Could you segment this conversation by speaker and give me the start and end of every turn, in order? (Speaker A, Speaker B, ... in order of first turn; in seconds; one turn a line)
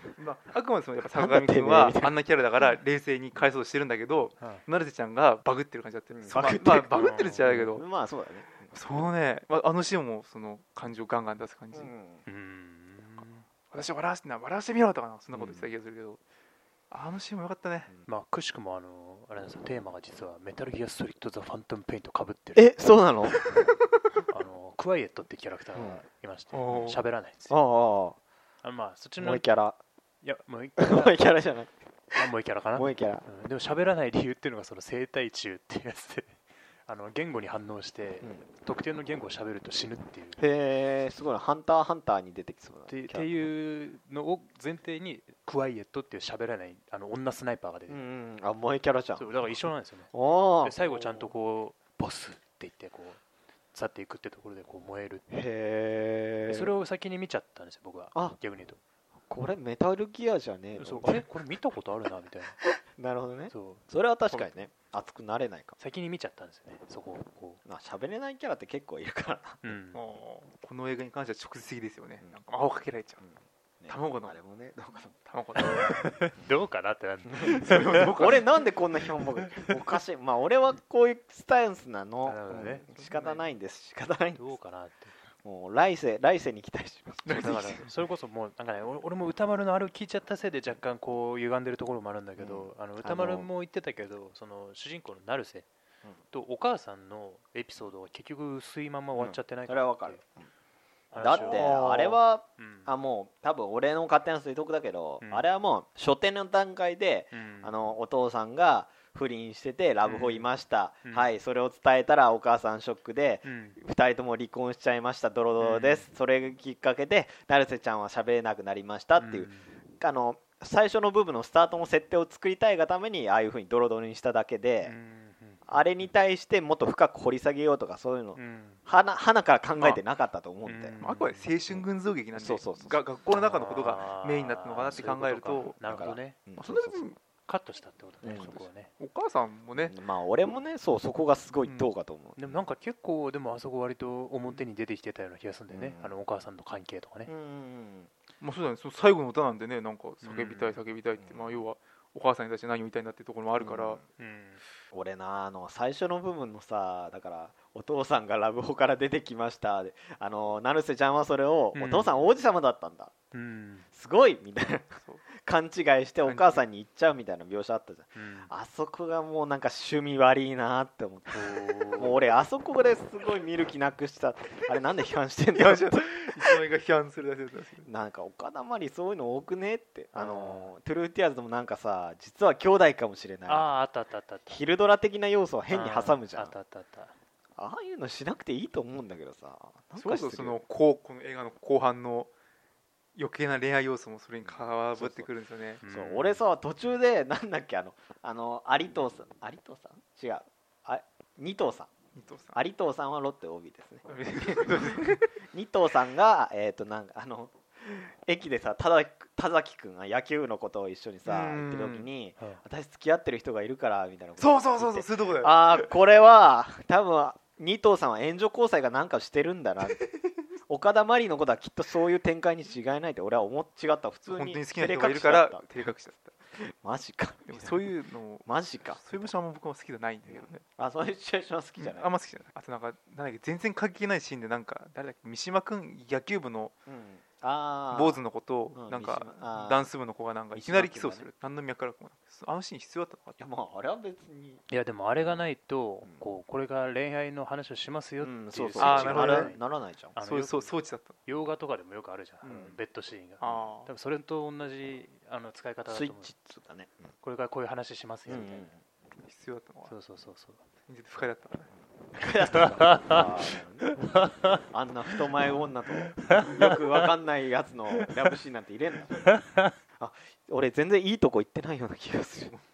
Speaker A: 0.1-7.8
Speaker B: 1.1-2.1
Speaker B: 6.1-8.7
Speaker C: 6.9-7.5
Speaker A: 8.7-11.9
Speaker B: 11.7-12.2
Speaker C: 12.2-13.5
Speaker A: 13.7-16.2
Speaker B: 15.3-15.7
Speaker A: 16.9-17.9
Speaker C: 18.1-22.7
Speaker B: 22.5-23.4
Speaker C: 23.3-23.7
Speaker C: 24.3-27.5
Speaker B: 25.7-26.0
Speaker A: 26.5-27.0
Speaker B: 27.5-28.2
Speaker C: 28.6-29.4
Speaker B: 29.2-29.8
Speaker C: 30.2-31.2
Speaker B: 30.8-33.2
Speaker C: 32.1-40.4
Speaker B: 40.4-43.3
Speaker C: 42.9-48.0
Speaker B: 47.9-49.3
Speaker C: 49.2-50.1
Speaker B: 50.1-51.3
Speaker C: 50.6-53.2
Speaker C: 53.7-55.2
Speaker B: 55.3-56.7
Speaker C: 56.5-58.8
Speaker B: 59.3-61.2
Speaker C: 60.8-62.6
Speaker B: 62.6-65.8
Speaker C: 63.5-63.8
Speaker A: 64.3-64.6
Speaker C: 65.8-67.6
Speaker B: 67.6-69.6
Speaker C: 69.6-70.0
Speaker A: 69.9-73.2
Speaker B: 73.2-75.3
Speaker A: 73.9-74.4
Speaker A: 75.3-76.0
Speaker C: 75.6-78.1
Speaker B: 77.3-84.5
Speaker A: 77.4-78.5
Speaker C: 79.4-79.7
Speaker C: 82.2-82.8
Speaker A: 82.9-83.4
Speaker C: 84.3-85.1
Speaker B: 85.4-87.8
Speaker A: 87.2-87.9
Speaker C: 87.4-95.7
Speaker B: 92.4-93.5
Speaker C: 96.3-100.2
Speaker B: 99.2-100.5
Speaker C: 101.1-102.9
Speaker B: 101.2-124.9
Speaker C: 105.2-105.5
Speaker C: 107.3-107.7
Speaker C: 110.0-110.5
Speaker C: 111.0-111.3
Speaker C: 113.4-113.8
Speaker C: 115.6-116.1
Speaker C: 119.2-119.7
Speaker C: 124.8-125.9
Speaker B: 125.7-131.0
Speaker C: 128.3-128.8
Speaker C: 130.7-131.5
Speaker A: 131.0-135.8
Speaker B: 131.7-133.9
Speaker C: 133.3-136.4
Speaker B: 135.7-137.0
Speaker A: 136.6-137.2
Speaker C: 137.4-138.9
Speaker B: 138.2-138.5
Speaker A: 138.3-139.9
Speaker B: 139.8-142.5
Speaker A: 141.6-141.9
Speaker C: 142.4-147.3
Speaker B: 145.7-146.1
Speaker B: 147.3-148.1
Speaker A: 148.4-154.0
Speaker C: 150.2-150.8
Speaker B: 151.2-151.6
Speaker B: 153.6-154.0
Speaker C: 154.2-154.6
Speaker B: 154.9-163.1
Speaker C: 161.7-162.3
Speaker C: 163.3-163.9
Speaker B: 163.9-176.6
Speaker A: 166.2-166.6
Speaker C: 168.2-168.5
Speaker C: 171.3-172.2
Speaker A: 175.5-177.9
Speaker B: 177.8-183.7
Speaker C: 180.1-180.7
Speaker C: 183.5-184.6
Speaker B: 184.5-186.5
Speaker C: 185.7-187.1
Speaker B: 187.6-190.6
Speaker A: 189.9-192.3
Speaker A: 193.2-195.8
Speaker B: 194.4-195.3
Speaker C: 195.8-196.4
Speaker B: 195.9-201.9
Speaker A: 202.1-202.6
Speaker B: 202.5-220.0
Speaker A: 204.1-205.3
Speaker A: 211.2-212.1
Speaker A: 214.4-215.9
Speaker A: 219.9-220.3
Speaker B: 220.7-225.9
Speaker A: 224.2-226.3
Speaker B: 226.5-227.8
Speaker A: 227.5-230.6
Speaker B: 228.4-229.3
Speaker B: 230.3-232.1
Speaker A: 231.8-236.7
Speaker B: 236.9-238.2
Speaker A: 237.9-243.4
Speaker B: 238.7-239.9
Speaker B: 240.5-241.3
Speaker B: 243.4-244.6
Speaker C: 244.7-249.6
Speaker B: 248.2-250.1
Speaker A: 248.8-249.5
Speaker C: 250.1-250.7
Speaker A: 250.2-251.2
Speaker C: 251.2-256.3
Speaker B: 252.4-252.8
Speaker A: 253.4-253.9
Speaker B: 255.9-257.0
Speaker C: 257.2-258.7
Speaker B: 258.3-258.8
Speaker A: 259.2-259.9
Speaker C: 259.9-260.6
Speaker A: 260.9-261.7
Speaker B: 262.1-269.4
Speaker C: 262.5-263.2
Speaker C: 263.8-264.6
Speaker C: 266.2-267.1
Speaker C: 269.2-269.7
Speaker B: 270.0-272.5